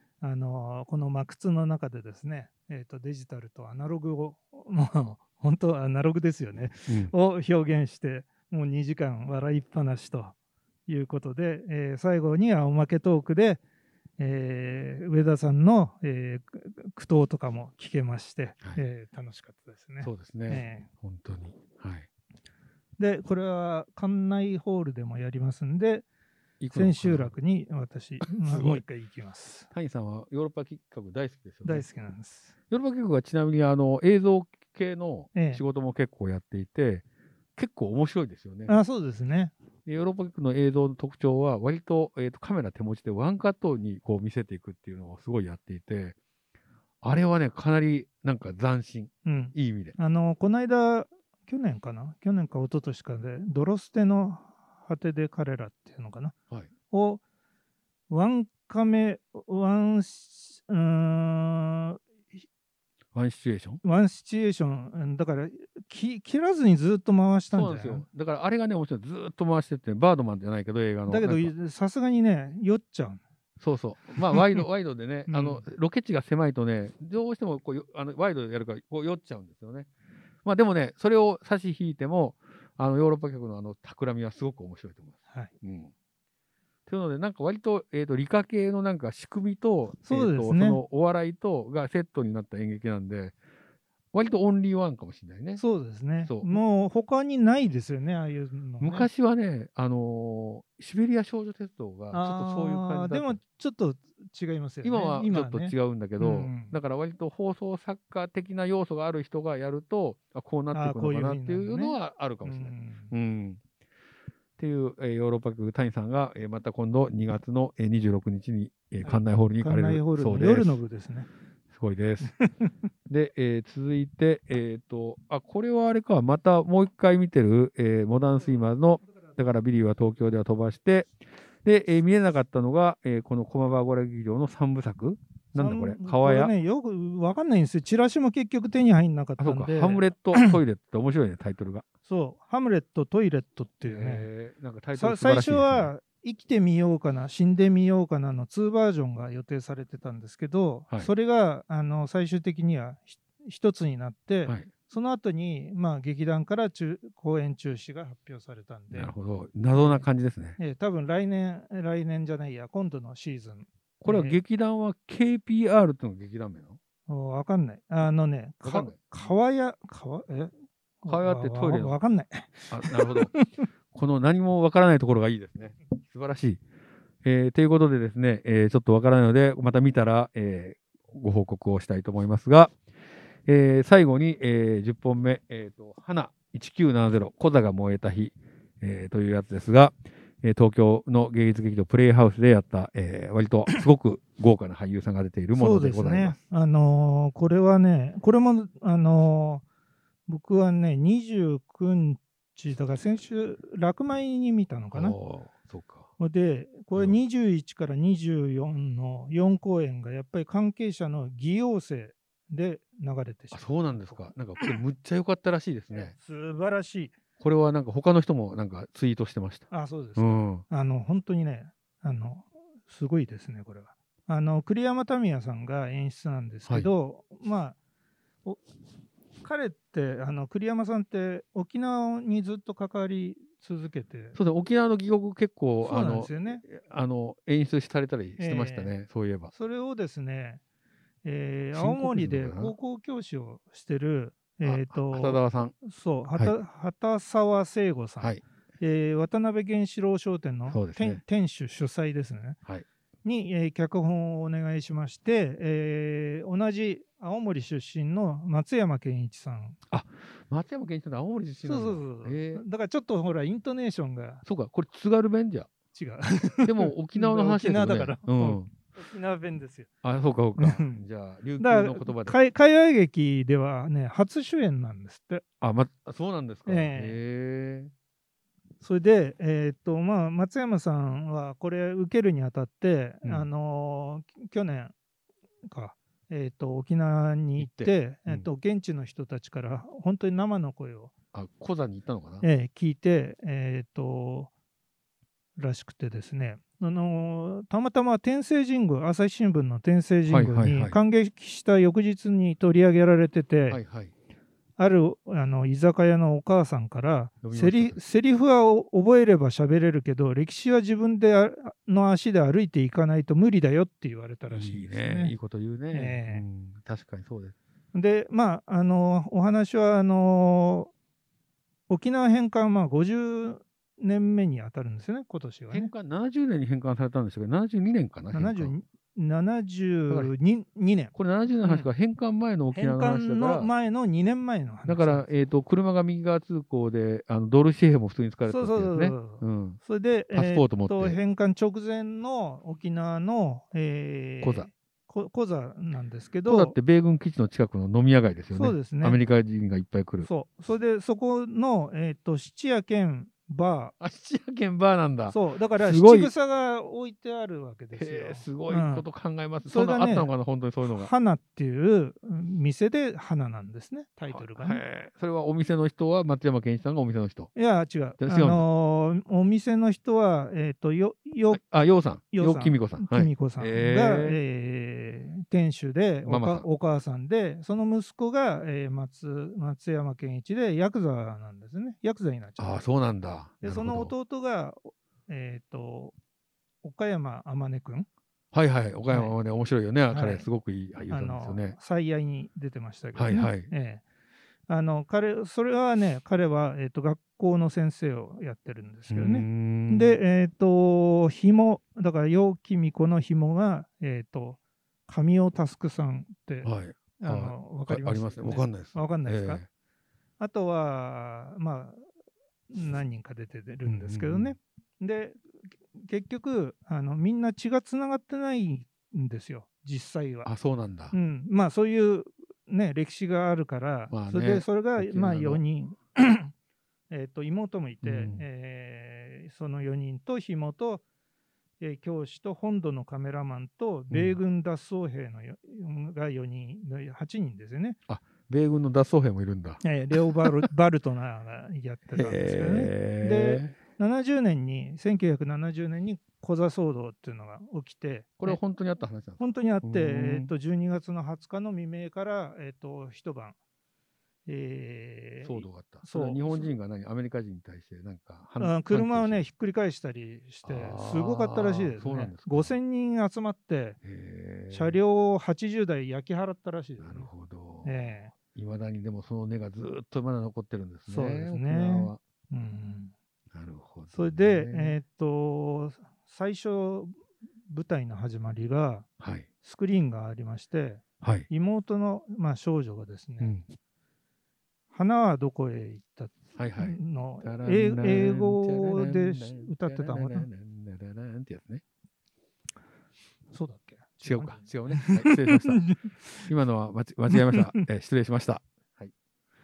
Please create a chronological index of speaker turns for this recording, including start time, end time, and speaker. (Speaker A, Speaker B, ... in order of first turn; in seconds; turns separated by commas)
Speaker A: 0.2-10.3, Speaker B: 6.9-7.1, Speaker A: 10.9-13.6, Speaker A: 14.2-20.9, Speaker B: 20.0-22.1, Speaker A: 23.0-26.1, Speaker B: 26.6-27.3, Speaker A: 26.7-29.7, Speaker B: 28.4-28.8, Speaker B: 29.7-31.9, Speaker A: 31.6-32.5, Speaker B: 32.7-37.0, Speaker A: 35.3-35.6, Speaker B: 37.6-38.8, Speaker A: 38.7-39.5, Speaker B: 39.8-46.2, Speaker B: 47.0-50.0, Speaker A: 49.2-56.3, Speaker A: 56.9-57.2, Speaker A: 58.1-62.4, Speaker B: 63.1-63.8, Speaker A: 63.8-68.0, Speaker B: 67.5-71.5, Speaker A: 71.1-73.2, Speaker B: 73.6-79.9, Speaker A: 74.3-74.6, Speaker A: 75.3-75.7, Speaker B: 80.4-85.9, Speaker B: 86.9-93.3, Speaker A: 90.0-90.8, Speaker B: 94.1-95.7, Speaker A: 95.6-99.1, Speaker B: 96.2-96.6, Speaker B: 98.8-103.4, Speaker A: 102.1-106.8, Speaker B: 104.8-113.6, Speaker A: 110.7-113.1, Speaker B: 114.6-120.8, Speaker A: 119.0-121.3, Speaker B: 121.7-122.3, Speaker A: 122.3-122.7, Speaker B: 123.1-131.1, Speaker B: 131.6-136.5, Speaker A: 135.6-140.6, Speaker B: 139.4-141.8, Speaker A: 142.1-144.3, Speaker B: 143.8-145.9, Speaker A: 144.9-159.1, Speaker B: 158.9-160.6, Speaker A: 159.7-160.1, Speaker A: 160.6-164.4, Speaker B: 164.0-166.8, Speaker A: 167.1-173.7, Speaker B: 168.6-169.0, Speaker B: 171.1-172.0, Speaker B: 172.7-173.3, Speaker B: 173.9-176.6, Speaker B: 177.2-182.7, Speaker B: 183.5-196.4, Speaker A: 195.5-199.6, Speaker A: 200.3-205.2, Speaker B: 204.9-206.1, Speaker A: 206.2-214.8, Speaker B: 213.5-216.1, Speaker A: 215.9-217.2, Speaker B: 217.4-220.6, Speaker A: 219.7-227.8, Speaker A: 229.4-234.4, Speaker B: 234.3-239.5, Speaker A: 235.8-236.6, Speaker A: 238.4-238.9, Speaker A: 239.5-240.6, Speaker A: 241.2-252.6, Speaker B: 241.7-242.8, Speaker B: 244.6-245.8, Speaker B: 250.7-251.2, Speaker A: 253.2-259.8, Speaker B: 259.9-262.6, Speaker A: 261.6-264.4, Speaker B: 264.4-265.7, Speaker A: 265.9-269.9, Speaker B: 266.6-268.7, Speaker B: 270.0-272.4, Speaker A: 270.6-271.1, Speaker A: 271.6-275.4, Speaker B: 275.6-277.9, Speaker A: 276.7-277.2, Speaker A: 278.8-284.9, Speaker A: 285.6-291.1, Speaker B: 287.6-288.5, Speaker B: 291.3-292.4, Speaker A: 292.4-294.5, Speaker A: 295.6-303.8, Speaker B: 300.3-301.0, Speaker B: 303.7-304.1, Speaker A: 304.8-315.4, Speaker B: 307.4-308.0, Speaker B: 314.5-317.6, Speaker A: 315.9-316.4, Speaker A: 317.9-320.9, Speaker A: 321.9-325.9, Speaker B: 325.7-328.7, Speaker A: 328.3-331.9, Speaker B: 331.1-333.7, Speaker A: 332.7-335.3, Speaker B: 334.9-339.8, Speaker A: 338.4-346.8, Speaker B: 340.3-341.2, Speaker B: 344.4-344.7, Speaker B: 346.4-350.3, Speaker A: 348.5-349.2, Speaker A: 350.2-353.9, Speaker B: 354.0-356.3, Speaker A: 355.3-359.1, Speaker B: 357.9-361.1, Speaker A: 359.6-360.3, Speaker A: 360.8-364.8, Speaker B: 364.3-367.5, Speaker A: 367.6-371.7, Speaker B: 368.2-368.7, Speaker B: 371.5-374.4, Speaker A: 372.3-382.9, Speaker B: 376.2-376.7, Speaker B: 382.6-384.1, Speaker A: 383.6-386.1, Speaker A: 386.8-388.1, Speaker B: 388.5-391.8, Speaker A: 389.1-389.4, Speaker A: 390.1-390.4, Speaker A: 391.1-394.0, Speaker B: 393.1-393.7, Speaker A: 394.7-409.6, Speaker B: 399.1-400.2, Speaker B: 406.6-409.7, Speaker A: 410.4-412.0, Speaker A: 412.7-415.4, Speaker B: 413.8-414.6, Speaker A: 415.9-420.5, Speaker B: 420.4-421.1, Speaker A: 421.1-426.5, Speaker B: 424.1-425.6, Speaker A: 427.1-431.0, Speaker B: 428.0-428.4, Speaker A: 431.8-438.0, Speaker B: 434.1-434.4, Speaker B: 438.1-439.8, Speaker A: 439.8-448.6, Speaker B: 442.1-443.8, Speaker B: 448.4-450.5, Speaker A: 449.4-453.6, Speaker A: 454.4-456.7, Speaker B: 455.4-459.4, Speaker A: 458.6-464.0, Speaker B: 460.6-462.8, Speaker B: 464.0-465.0, Speaker A: 464.7-467.3, Speaker B: 467.0-467.9, Speaker A: 467.8-468.3, Speaker B: 468.5-472.2, Speaker A: 471.1-473.1, Speaker B: 473.5-475.0, Speaker A: 474.1-477.2, Speaker A: 477.7-479.1, Speaker B: 479.2-479.5, Speaker A: 479.6-483.6, Speaker B: 481.2-481.5, Speaker A: 484.9-490.5, Speaker B: 486.6-491.8, Speaker A: 493.5-496.4, Speaker B: 494.2-495.8, Speaker B: 496.4-499.1, Speaker A: 497.3-497.8